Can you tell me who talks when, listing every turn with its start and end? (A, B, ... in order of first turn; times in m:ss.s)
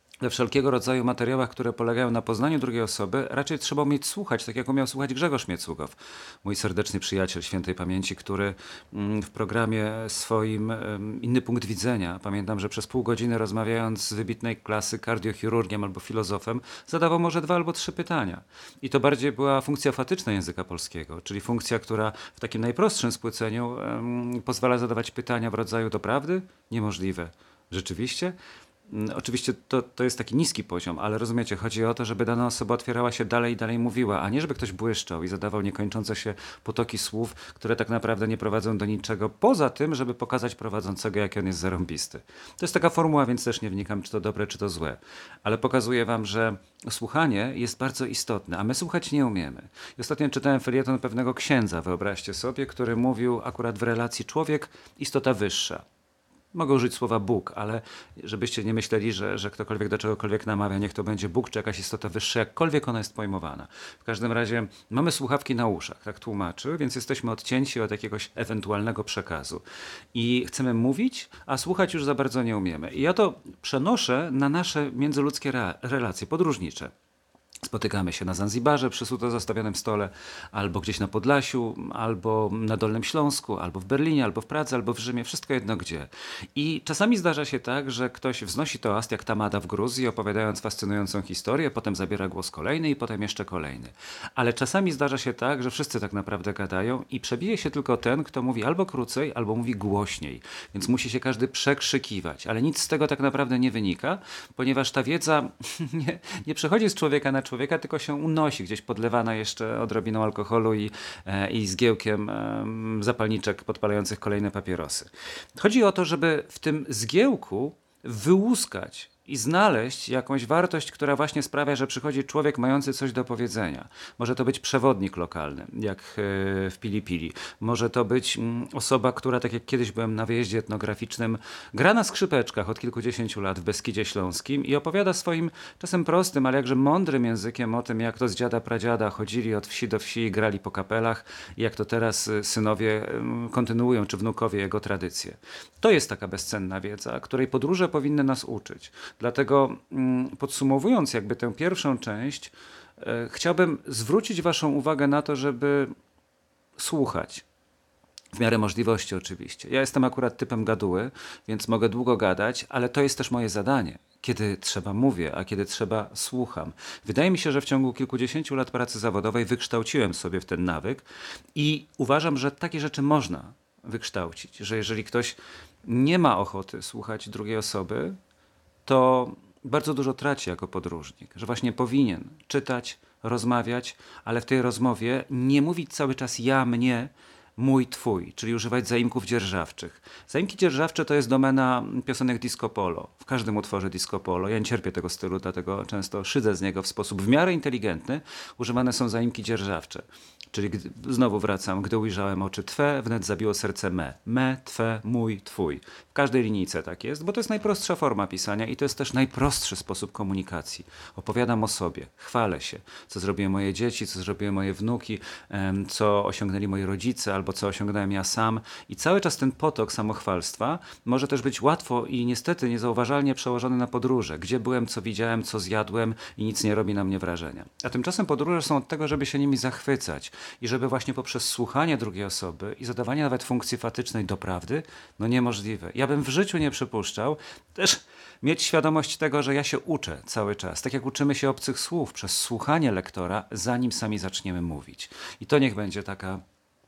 0:00.2-0:28.4 A
0:28.9-0:55.8 A
0:56.5-1:16.9 A
1:17.6-2:35.9 A
2:36.8-2:37.4 A
2:38.3-2:58.2 A
2:58.8-4:06.4 A